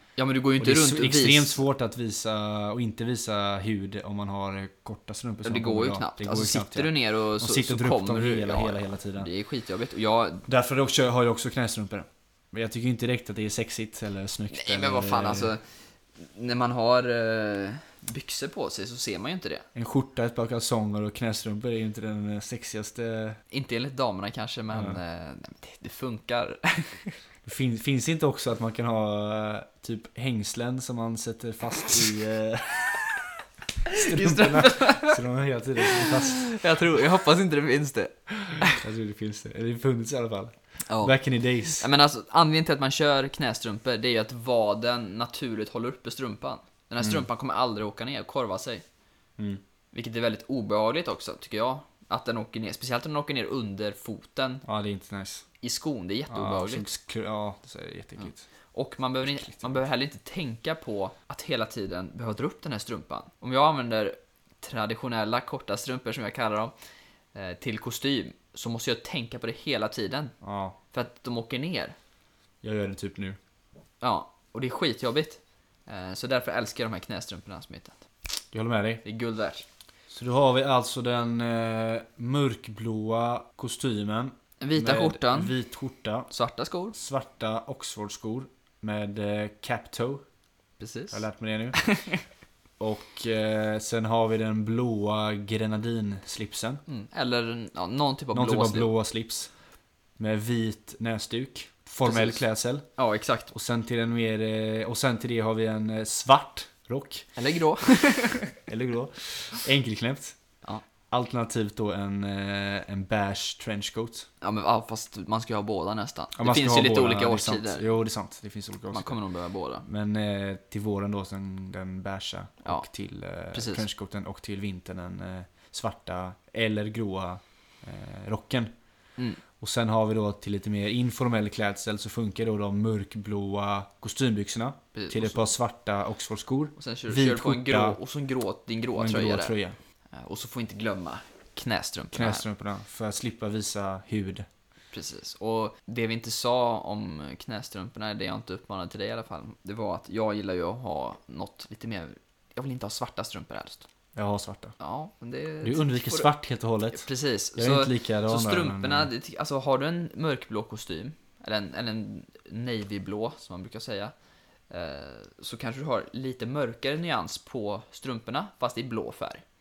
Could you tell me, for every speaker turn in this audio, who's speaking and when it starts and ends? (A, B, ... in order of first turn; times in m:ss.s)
0:00.2-0:01.6 A
0:00.6-0:09.3 B
0:05.4-0:10.5 A
0:10.5-0:15.5 B
0:14.5-0:15.6 A
0:16.2-0:19.7 A
0:19.8-0:23.4 B
0:23.5-0:27.2 A
0:24.7-0:25.0 B
0:27.4-0:33.1 B
0:33.9-0:35.2 A
0:33.9-0:36.6 B
0:35.8-0:38.8 A
0:38.7-0:41.8 B
0:40.9-0:41.2 A
0:41.8-0:48.8 A
0:47.0-0:47.3 B
0:49.9-0:54.6 A
0:54.6-0:55.5 B
0:55.6-0:56.9 A
0:56.3-0:58.4 B
0:58.7-1:06.7 A
0:59.2-0:59.8 B
1:07.3-1:10.4 A
1:10.4-1:10.8 B
1:10.9-1:12.0 A
1:12.6-1:13.4 B
1:14.0-1:18.0 A
1:18.5-1:19.0 B
1:19.0-1:19.6 A
1:20.1-1:26.3 B
1:24.6-1:25.6 A
1:26.3-1:27.0 A
1:27.0-1:30.2 B
1:30.8-1:32.2 A
1:31.1-1:31.9 B
1:32.8-1:36.8 B
1:36.9-1:38.9 A
1:38.3-1:39.5 B
1:40.2-1:42.9 B
1:42.0-1:42.4 A
1:43.0-1:43.5 A
1:43.5-1:47.3 B
1:47.4-1:48.5 A
1:48.6-1:50.4 B
1:51.1-1:54.3 B
1:54.4-1:57.8 A
1:56.4-1:59.2 B
1:58.9-1:59.8 A
1:59.8-2:08.7 B
2:03.5-2:03.8 A
2:09.6-2:18.0 B
2:14.9-2:15.5 A
2:16.8-2:19.6 A
2:18.9-2:19.8 B
2:20.1-2:22.4 A
2:22.1-2:24.5 B
2:24.9-2:33.9 A
2:34.2-2:34.7 B
2:34.8-2:36.3 A
2:35.6-2:39.1 B
2:36.9-2:44.1 A
2:44.7-2:49.4 A